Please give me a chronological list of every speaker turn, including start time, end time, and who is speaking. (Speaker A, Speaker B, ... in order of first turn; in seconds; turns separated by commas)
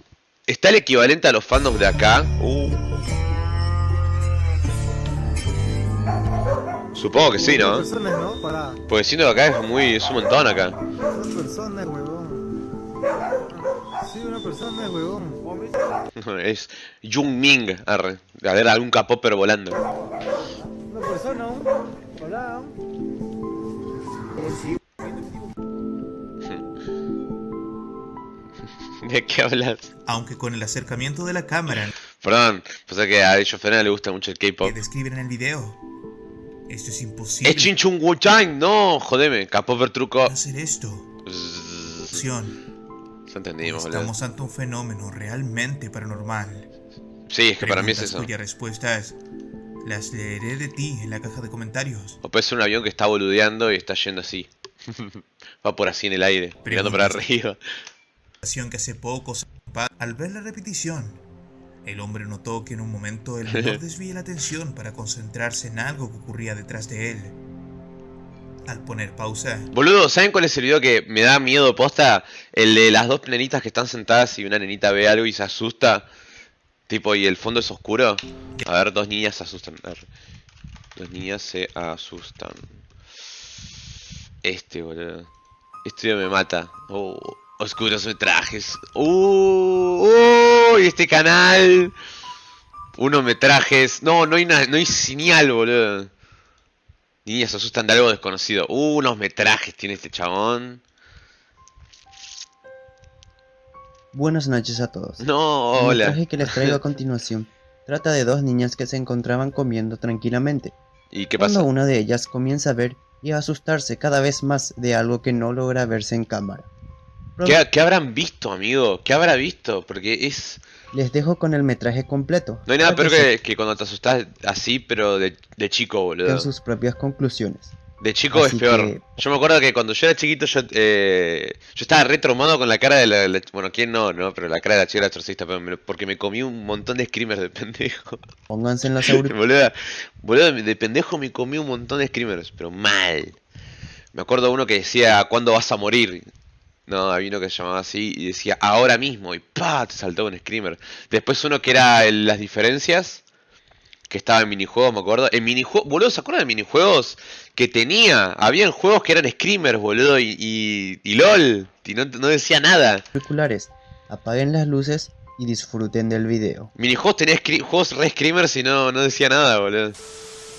Speaker A: 0.5-2.9, Speaker A: 6.9-7.9, Speaker B: 7.5-8.8, Speaker A: 8.9-10.8, Speaker B: 11.1-12.5, Speaker B: 14.0-15.4, Speaker A: 16.2-19.8, Speaker B: 20.9-22.8, Speaker B: 24.4-24.7, Speaker A: 29.0-29.9, Speaker C: 30.1-31.9, Speaker A: 32.0-34.8, Speaker C: 34.6-35.8, Speaker C: 36.7-37.7, Speaker A: 37.5-40.3, Speaker C: 40.2-41.1, Speaker A: 41.3-42.2, Speaker C: 42.1-42.6, Speaker A: 43.3-44.1, Speaker C: 43.6-46.7, Speaker A: 47.3-48.3, Speaker C: 47.6-49.2, Speaker C: 49.8-52.2, Speaker A: 52.2-57.6, Speaker C: 56.6-57.2, Speaker C: 58.4-61.2, Speaker C: 61.8-67.4, Speaker A: 63.5-63.8, Speaker C: 68.7-69.7, Speaker A: 69.7-76.1, Speaker A: 76.9-80.1, Speaker A: 81.0-82.8, Speaker A: 84.4-85.3, Speaker A: 85.8-91.9, Speaker A: 93.0-96.1, Speaker A: 97.3-100.8, Speaker D: 104.1-110.8, Speaker A: 105.2-106.8, Speaker A: 111.1-111.7, Speaker D: 111.4-116.7, Speaker A: 117.4-120.6, Speaker D: 120.9-123.3, Speaker A: 122.7-126.5, Speaker D: 126.2-127.7, Speaker A: 128.0-138.2, Speaker D: 128.3-129.0, Speaker D: 138.5-139.3, Speaker A: 139.1-143.4, Speaker A: 144.1-146.3, Speaker A: 146.9-153.2, Speaker A: 154.1-163.1, Speaker D: 163.2-166.7, Speaker A: 166.8-170.0